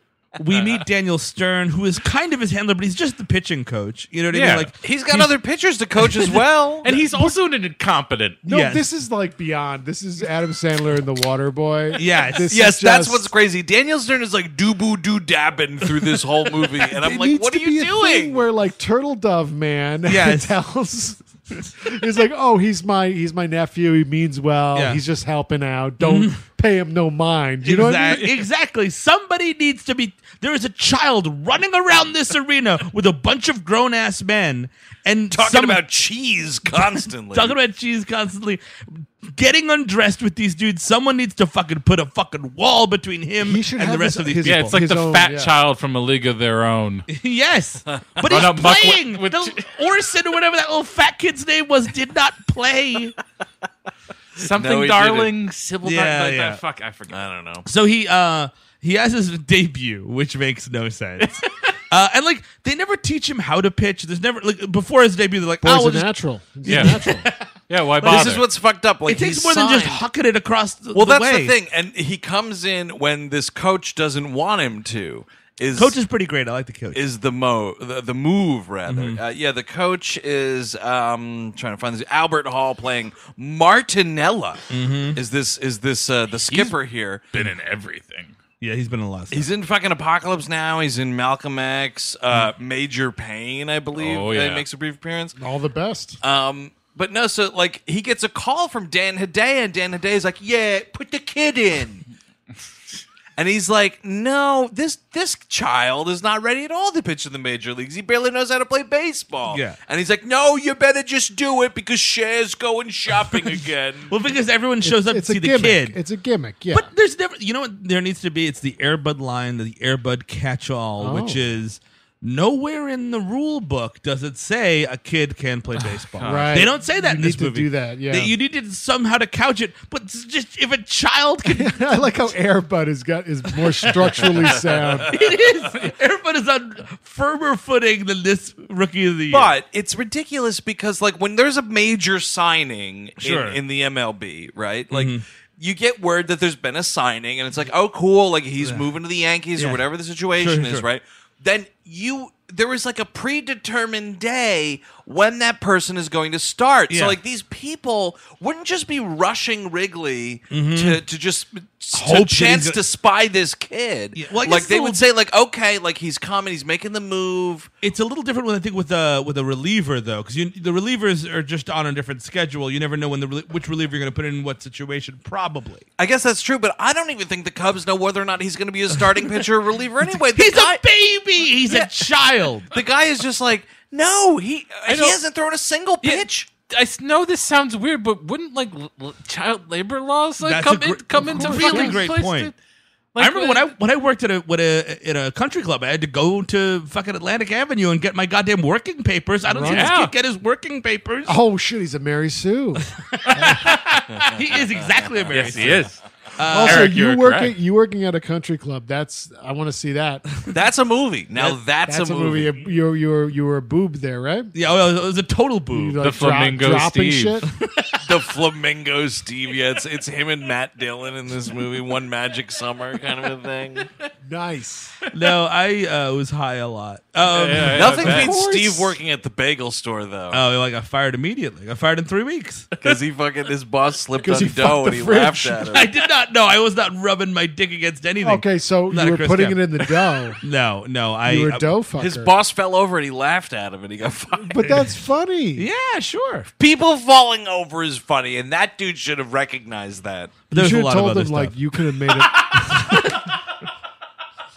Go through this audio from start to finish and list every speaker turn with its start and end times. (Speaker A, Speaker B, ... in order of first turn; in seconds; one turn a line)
Speaker A: 0.4-5.3
Speaker B: 4.3-4.7
Speaker C: 4.8-6.9
Speaker A: 6.0-6.4
Speaker B: 6.8-8.4
Speaker D: 6.9-7.3
Speaker D: 8.4-13.3
Speaker A: 8.5-8.8
Speaker A: 11.9-12.5
Speaker C: 12.5-18.4
Speaker D: 17.0-28.3
Speaker A: 20.1-20.5
Speaker A: 24.7-25.0
Speaker A: 26.0-26.4
Speaker A: 27.6-35.8
Speaker C: 35.3-37.6
Speaker A: 37.3-44.8
Speaker D: 43.4-45.5
Speaker B: 44.5-47.1
Speaker A: 47.1-53.1
Speaker C: 48.0-48.4
Speaker B: 48.2-49.7
Speaker B: 54.4-57.3
Speaker C: 54.4-55.3
Speaker A: 55.8-56.6
Speaker C: 57.1-57.7
Speaker A: 57.6-66.1
Speaker D: 65.6-67.3
Speaker A: 66.6-67.4
Speaker B: 66.7-68.4
Speaker A: 68.0-68.4
Speaker C: 68.0-70.0
Speaker A: 69.1-71.5
Speaker C: 70.9-76.0
Speaker A: 75.8-77.0
Speaker C: 76.9-87.2
Speaker A: 78.9-79.2
Speaker A: 84.7-85.2
Speaker B: 86.5-86.8
Speaker B: 87.3-88.3
Speaker A: 88.6-89.5
Speaker C: 89.3-95.4
Speaker B: 94.0-94.7
Speaker D: 95.4-96.2
Speaker C: 96.2-102.0
Speaker C: 103.4-114.1
Speaker A: 109.5-109.8
Speaker A: 114.1-116.0
Speaker D: 114.8-116.9
Speaker A: 116.7-132.2
Speaker D: 121.0-121.5
Speaker B: 126.2-126.7
Speaker D: 126.2-128.3
Speaker D: 131.5-135.1
Speaker A: 133.8-134.2
Speaker C: 134.7-135.1
Speaker A: 135.1-139.5
Speaker C: 139.3-167.7
Speaker A: 143.2-143.6
Speaker A: 144.9-145.2
Speaker A: 150.4-150.8
Speaker A: 156.9-157.2
Speaker A: 160.5-161.0
Speaker A: 161.9-162.8
Speaker A: 164.2-165.0
Speaker A: 167.8-175.8
Speaker C: 176.0-180.8
Speaker A: 180.1-182.7
Speaker C: 181.7-182.1
Speaker C: 182.7-186.5
Speaker B: 184.9-185.2
Speaker B: 186.0-192.6
Speaker A: 190.4-192.5
Speaker D: 191.2-192.0
Speaker B: 193.2-193.7
Speaker A: 193.2-201.4
Speaker D: 199.5-199.9
Speaker B: 199.6-200.1
Speaker D: 201.3-203.8
Speaker A: 202.9-207.0
Speaker B: 205.3-207.6
Speaker D: 206.5-210.3
Speaker C: 210.5-212.6
Speaker D: 211.4-214.5
Speaker A: 214.5-216.0
Speaker D: 215.7-217.5
Speaker B: 216.0-217.5
Speaker C: 218.0-223.9
Speaker D: 224.2-224.9
Speaker A: 225.1-228.4
Speaker B: 227.3-228.4
Speaker C: 227.6-230.4
Speaker D: 228.3-228.7
Speaker A: 230.3-232.7
Speaker C: 232.8-235.9
Speaker D: 234.2-235.8
Speaker A: 235.7-239.6
Speaker D: 238.2-240.4
Speaker A: 240.4-241.8
Speaker D: 241.2-242.3
Speaker C: 242.0-244.8
Speaker D: 244.4-245.7
Speaker A: 244.6-244.9
Speaker A: 245.6-246.5
Speaker C: 246.6-250.4
Speaker A: 250.5-251.8
Speaker D: 250.5-253.0
Speaker A: 252.5-252.9